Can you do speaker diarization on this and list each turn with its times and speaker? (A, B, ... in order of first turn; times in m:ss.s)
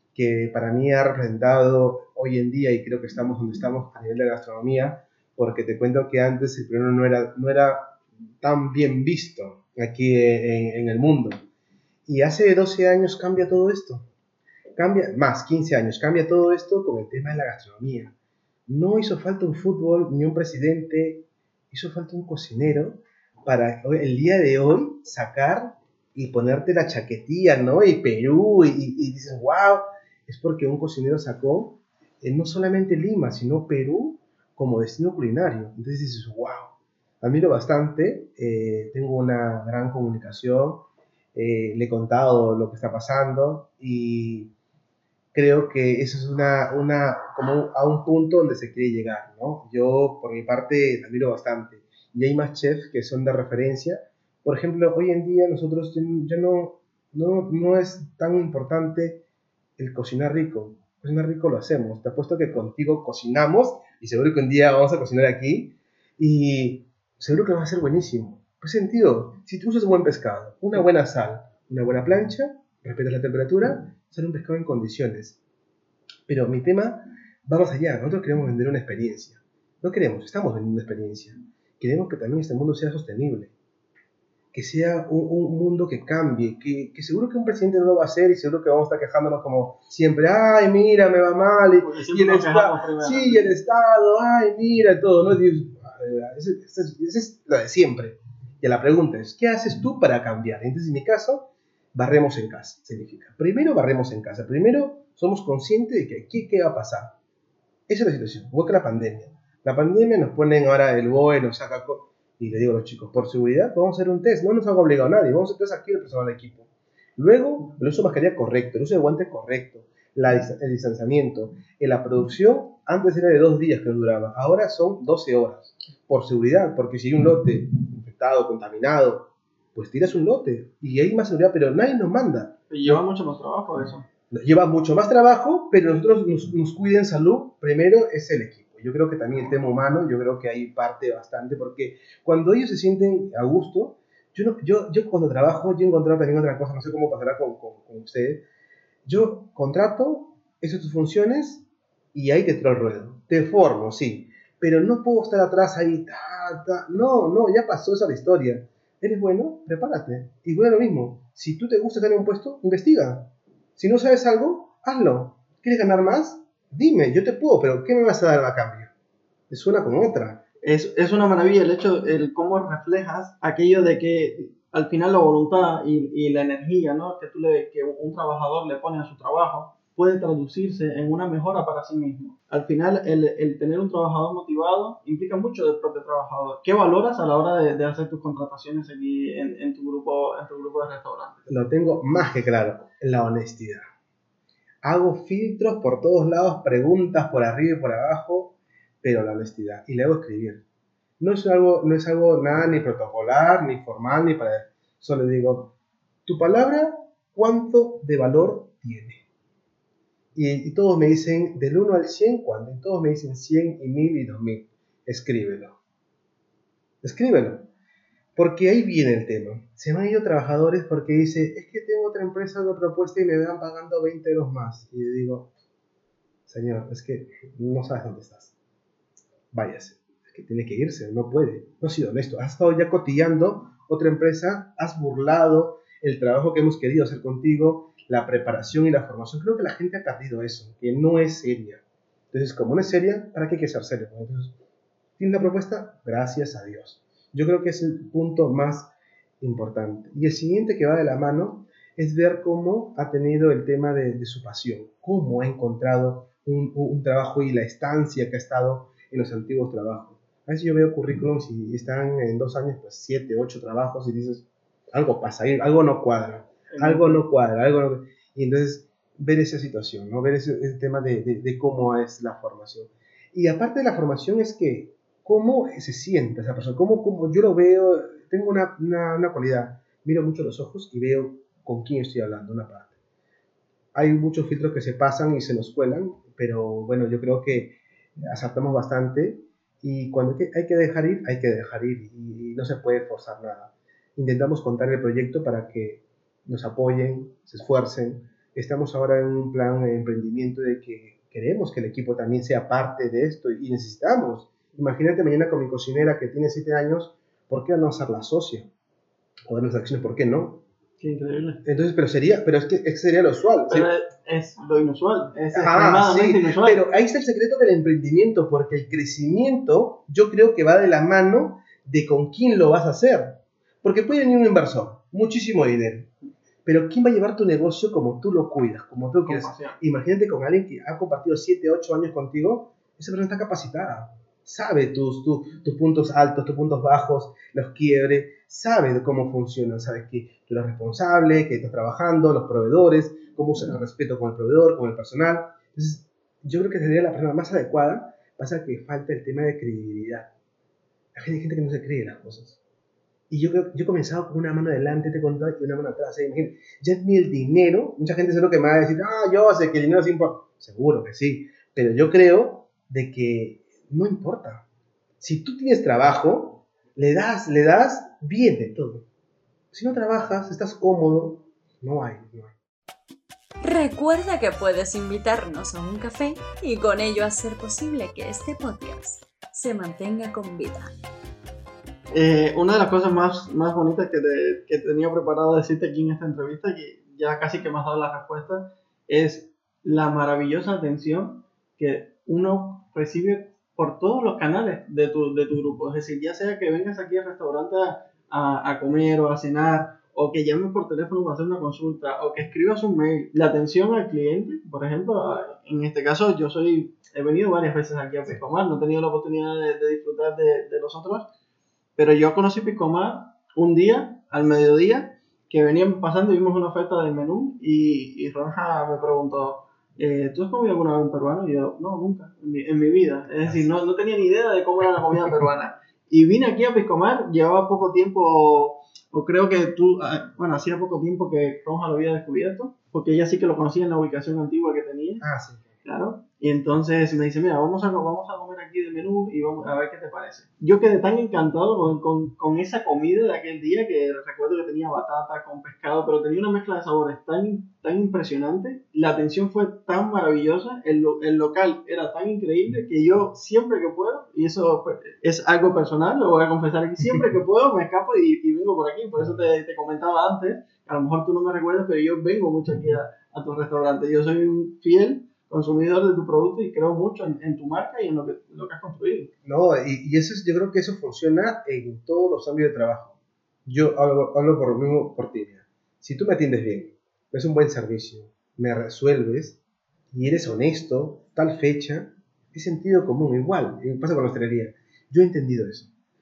0:00.2-0:11.5 A
0:12.1-0:14.1 A
0:14.8-0:18.1 A
0:18.7-0:44.5 A
0:45.3-0:59.2 A
0:59.8-1:15.4 A
1:16.3-1:23.5 A
1:24.5-1:47.2 A
1:31.8-1:33.5 B
1:47.9-2:13.0 A
2:12.7-2:14.1 B
2:14.3-2:28.4 A
2:29.0-2:48.9 A
2:49.5-2:50.4 A
2:50.6-3:11.4 B
3:11.5-3:13.8 A
3:14.8-3:20.6 A
3:21.2-3:25.7 A
3:26.3-3:29.2 A
3:30.4-3:35.8 A
3:37.0-3:37.7 A
3:38.4-3:45.5 A
3:46.5-3:48.5 A
3:49.5-4:04.6 A
4:05.2-4:42.9 A
4:26.7-4:27.2 B
4:43.9-5:08.7 A
5:09.5-5:10.6 A
5:11.0-5:11.6 B
5:11.6-5:13.9 A
5:13.7-5:16.8 B
5:15.5-5:26.1 A
5:26.6-5:50.3 A
5:29.3-5:29.8 B
5:51.2-5:52.6 A
5:53.3-6:04.6 A
6:05.2-6:09.1 A
6:09.7-6:12.6 A
6:13.6-6:20.9 C
6:22.1-6:51.3 B
6:52.0-7:15.3 B
7:03.4-7:03.7 A
7:15.2-7:15.7 A
7:15.8-7:49.3 B
7:49.4-7:53.2 A
7:53.7-7:59.6 A
8:00.1-8:05.9 A